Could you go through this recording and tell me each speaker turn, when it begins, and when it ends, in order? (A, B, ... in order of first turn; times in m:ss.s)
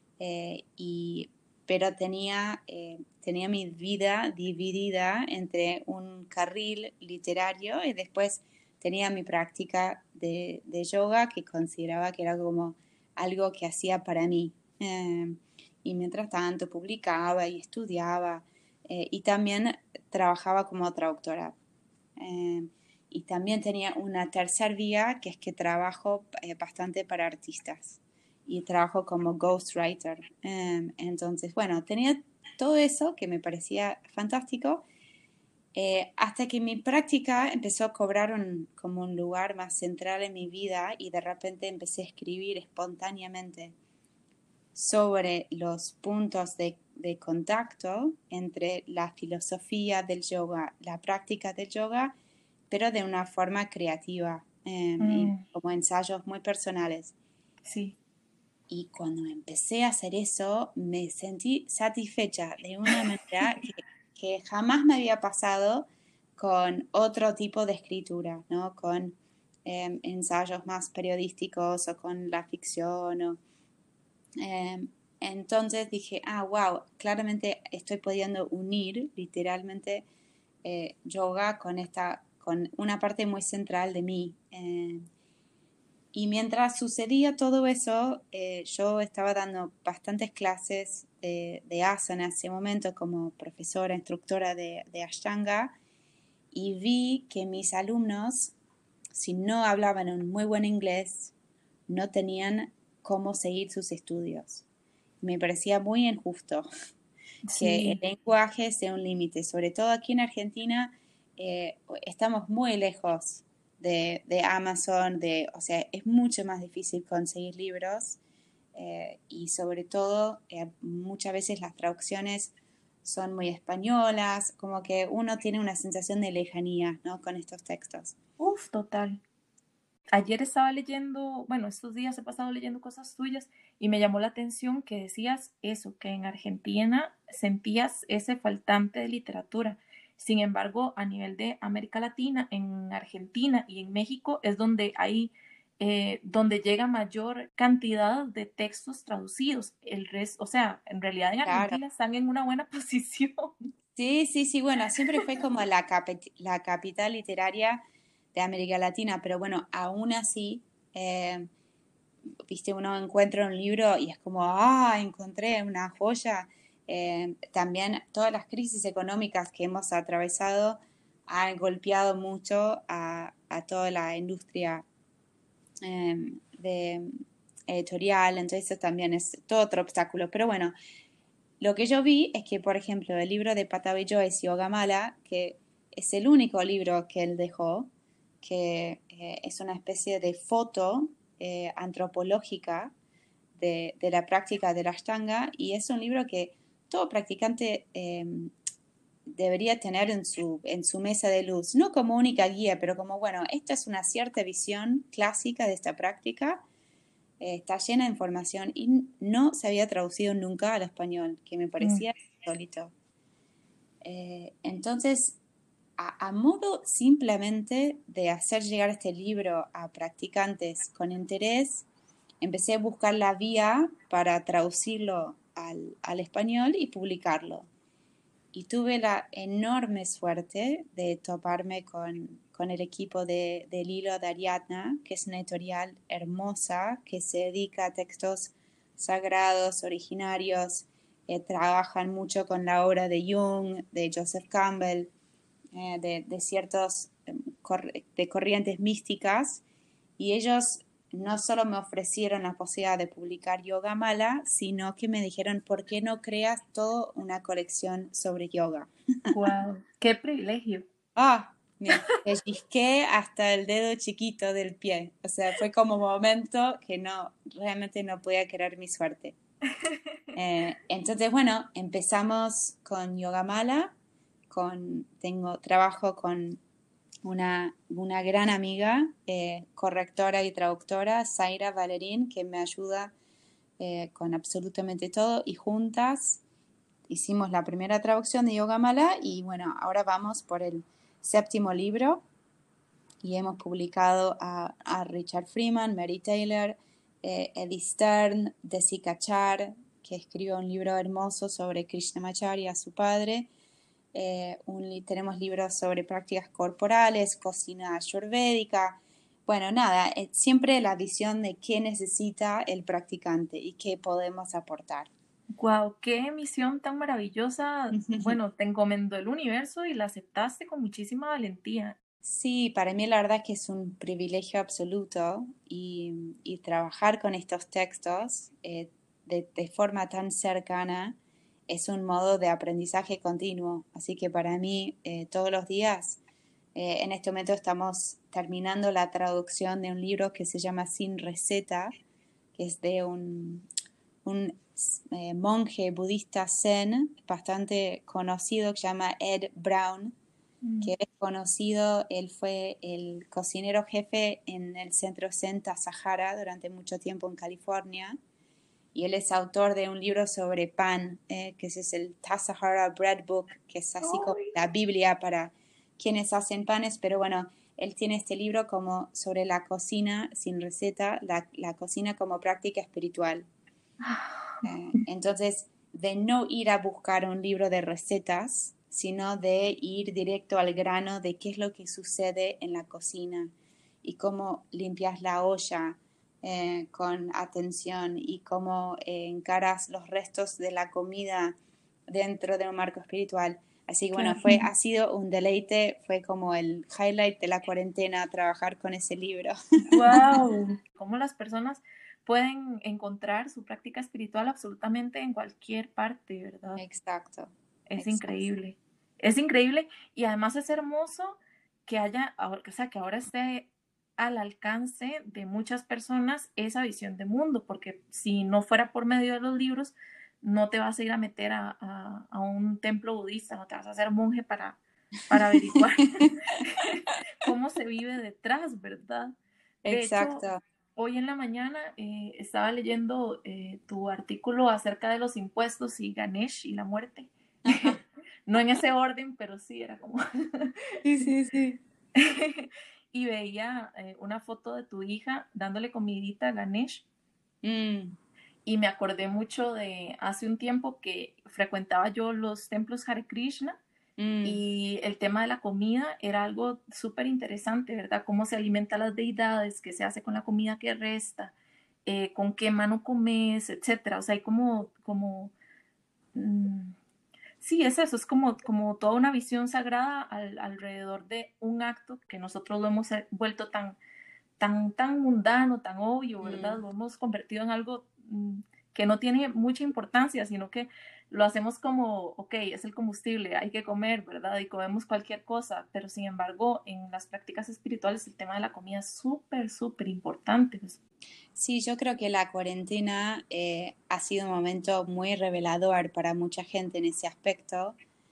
0:00.2-0:21.6 A
0:22.2-0:34.8 A
0:35.7-0:43.8 A
0:44.8-0:52.2 A
0:52.7-0:57.2 A
0:55.0-0:55.4 B
0:57.7-0:58.0 B
0:58.7-1:13.4 A
1:14.4-1:20.1 A
1:20.6-1:25.0 A
1:26.1-1:35.8 A
1:36.5-1:38.6 A
1:39.1-1:41.3 A
1:41.9-1:44.6 A
1:45.2-1:46.7 A
1:47.4-1:48.0 B
1:47.6-1:58.2 A
1:58.8-2:08.2 A
2:08.4-2:09.2 B
2:10.1-2:33.6 B
2:31.4-2:31.8 A
2:34.0-2:37.8 A
2:38.3-2:41.5 A
2:42.5-2:54.8 A
2:55.8-2:57.2 A
2:57.7-3:00.7 A
3:01.6-3:07.9 A
3:08.4-3:12.9 A
3:13.6-3:18.5 A
3:19.3-3:26.6 A
3:27.4-3:32.9 A
3:31.8-3:32.1 B
3:34.0-3:35.4 A
3:36.0-3:41.9 A
3:42.4-3:47.7 A
3:48.5-4:05.1 A
4:05.7-4:09.6 A
4:10.2-4:19.3 A
4:19.3-4:20.8 B
4:21.2-4:29.4 A
4:21.9-4:22.2 B
4:30.4-4:33.9 A
4:34.5-4:36.6 A
4:37.2-4:43.1 A
4:43.8-4:46.4 A
4:47.1-4:52.2 A
4:53.2-5:03.5 A
5:04.1-5:15.1 A
5:15.6-5:22.0 B
5:17.9-5:18.4 A
5:22.2-5:31.2 A
5:31.7-5:36.2 A
5:36.8-5:41.9 A
5:42.6-5:43.7 A
5:44.2-5:50.2 A
5:50.6-5:50.9 B
5:50.8-5:58.2 A
5:58.9-6:13.4 A
6:04.0-6:04.6 B
6:14.0-6:14.6 B
6:14.6-6:23.5 A
6:24.0-6:31.6 A
6:32.1-6:39.6 A
6:34.1-6:34.7 B
6:39.9-6:46.8 B
6:40.1-6:40.4 A
6:46.8-6:48.5 A
6:47.9-7:10.4 B
7:09.8-7:10.6 A
7:11.0-7:20.7 B
7:17.6-7:18.0 A
7:21.0-7:21.8 A
7:22.2-7:27.0 B
7:27.6-7:28.2 A
7:28.6-7:33.8 B
7:34.2-7:34.6 A
7:34.4-7:41.5 B
7:42.1-7:45.5 B
7:46.4-7:47.0 B
7:47.6-7:54.0 B
7:54.6-8:11.0 B
7:56.4-7:56.8 A
8:11.6-8:18.0 A